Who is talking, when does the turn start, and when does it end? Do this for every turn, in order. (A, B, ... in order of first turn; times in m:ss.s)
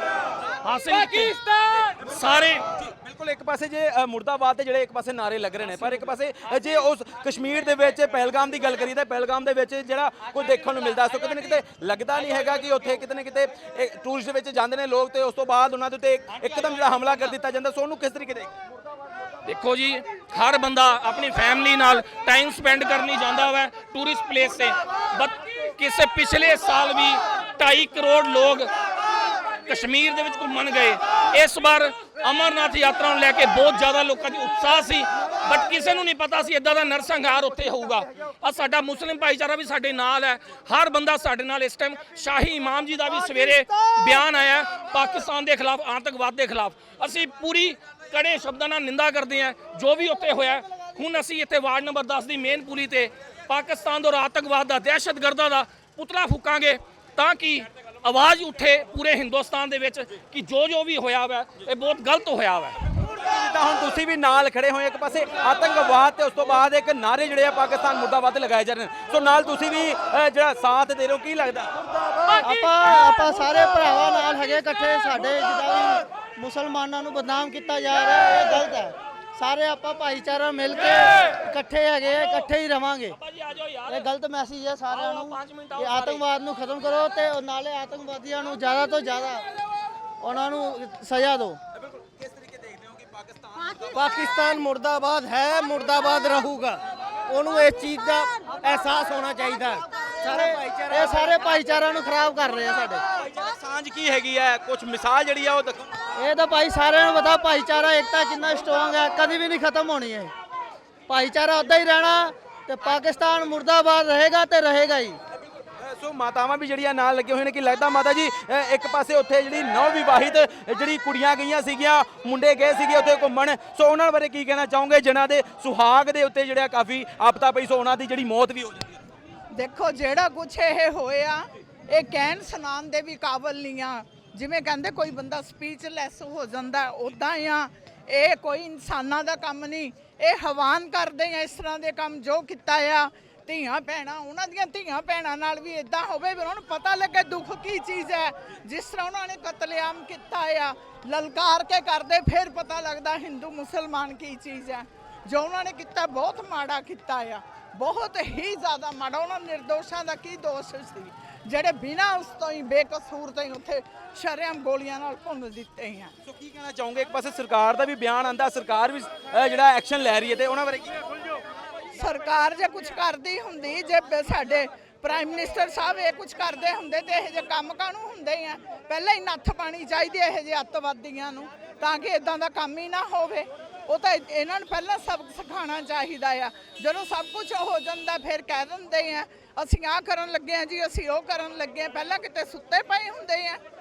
0:00.6-0:01.4 A
0:02.0-0:02.6 A
0:02.9-0:18.5 B
0:19.4-0:28.7 A
0:29.6-1:02.8 A
1:03.1-1:11.7 B
1:12.4-1:23.2 C
1:23.1-1:24.1 A
1:23.9-1:29.4 C
1:24.9-1:26.2 A
1:30.2-1:31.6 C
1:32.0-1:33.8 B
1:33.9-1:41.4 D
1:40.3-1:43.0 C
1:43.2-1:45.9 B
1:46.2-1:50.3 C
1:51.1-1:55.2 C
1:55.8-2:09.0 B
2:09.5-2:46.1 E
2:46.3-2:51.1 B
2:52.0-3:13.6 E